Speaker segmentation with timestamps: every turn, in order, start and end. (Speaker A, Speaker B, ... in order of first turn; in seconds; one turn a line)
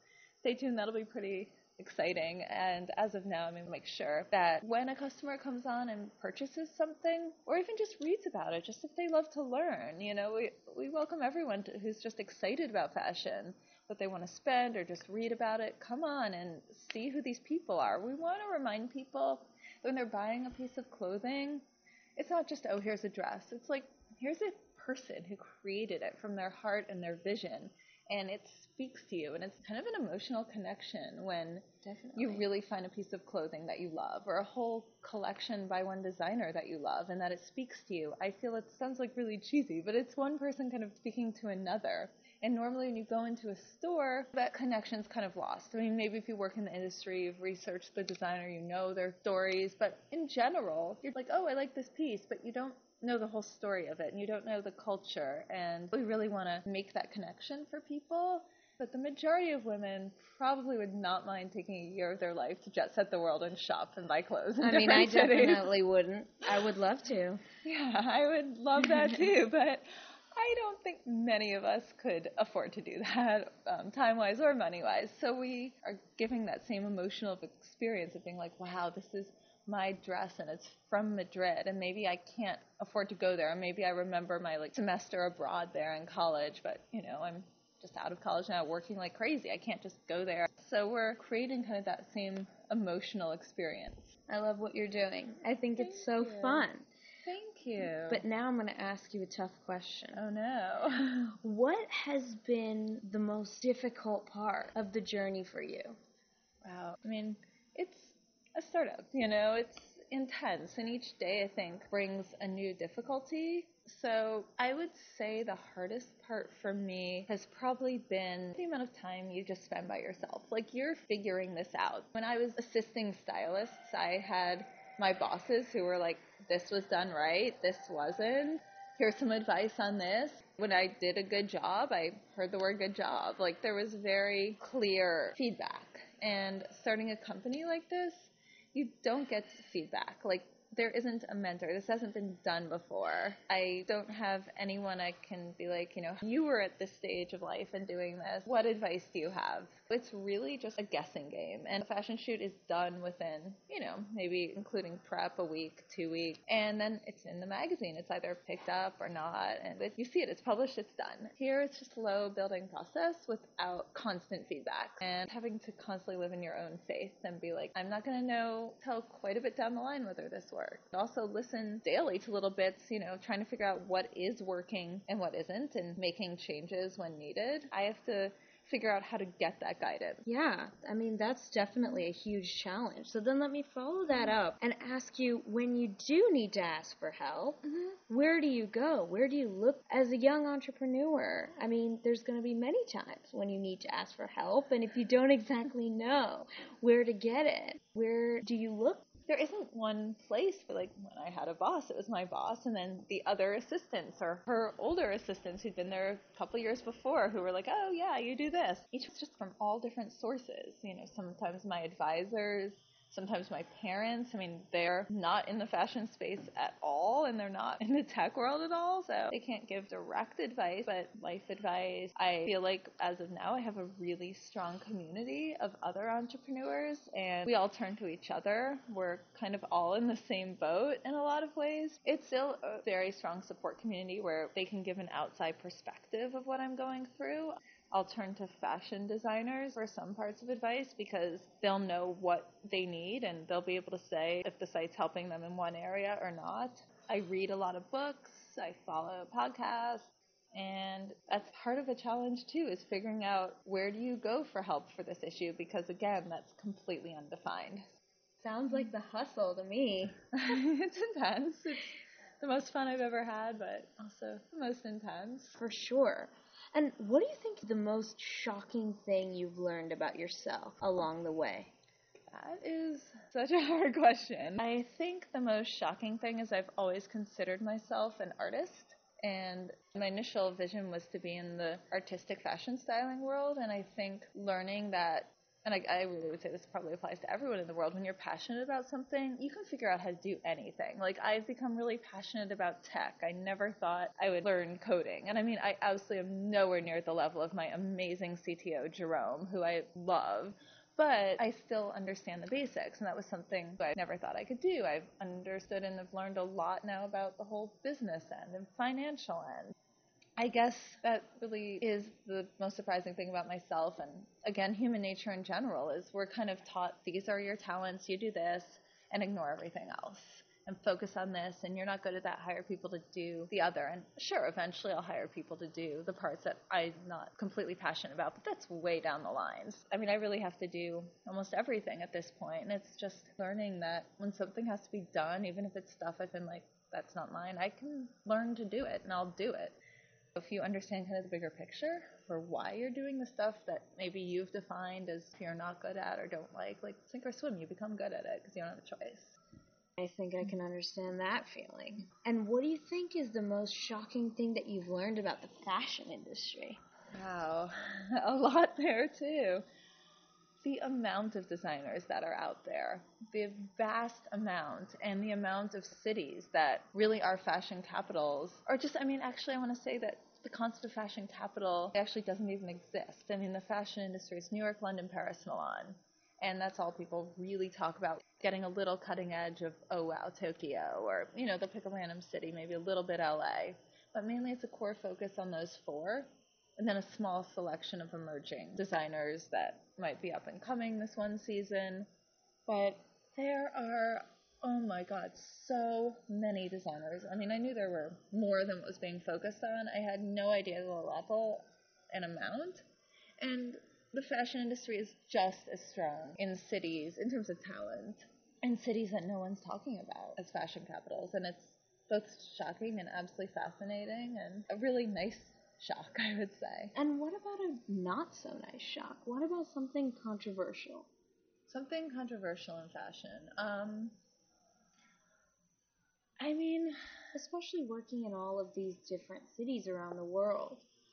Speaker A: 0.4-21.6
Speaker A: 22.1-65.7
Speaker B: 31.8-32.5
Speaker B: 64.6-67.4
Speaker A: 67.6-94.1
Speaker B: 94.3-96.8
Speaker A: 95.8-96.7
Speaker A: 97.2-98.2
Speaker B: 98.1-100.2
Speaker A: 100.1-101.4
Speaker B: 101.4-106.0
Speaker A: 106.6-180.3
Speaker B: 180.3-199.1
Speaker A: 199.2-257.8
Speaker B: 258.4-260.2
Speaker A: 260.3-265.6
Speaker B: 265.6-271.7
Speaker A: 272.3-309.7
Speaker A: 310.4-339.8
Speaker A: 340.3-349.4
Speaker B: 350.0-356.8
Speaker A: 357.1-359.6
Speaker A: 360.6-392.1
Speaker A: 392.7-402.8
Speaker A: 403.4-416.9
Speaker B: 416.9-421.1
Speaker A: 421.7-424.1
Speaker A: 426.4-427.1
Speaker B: 427.3-430.8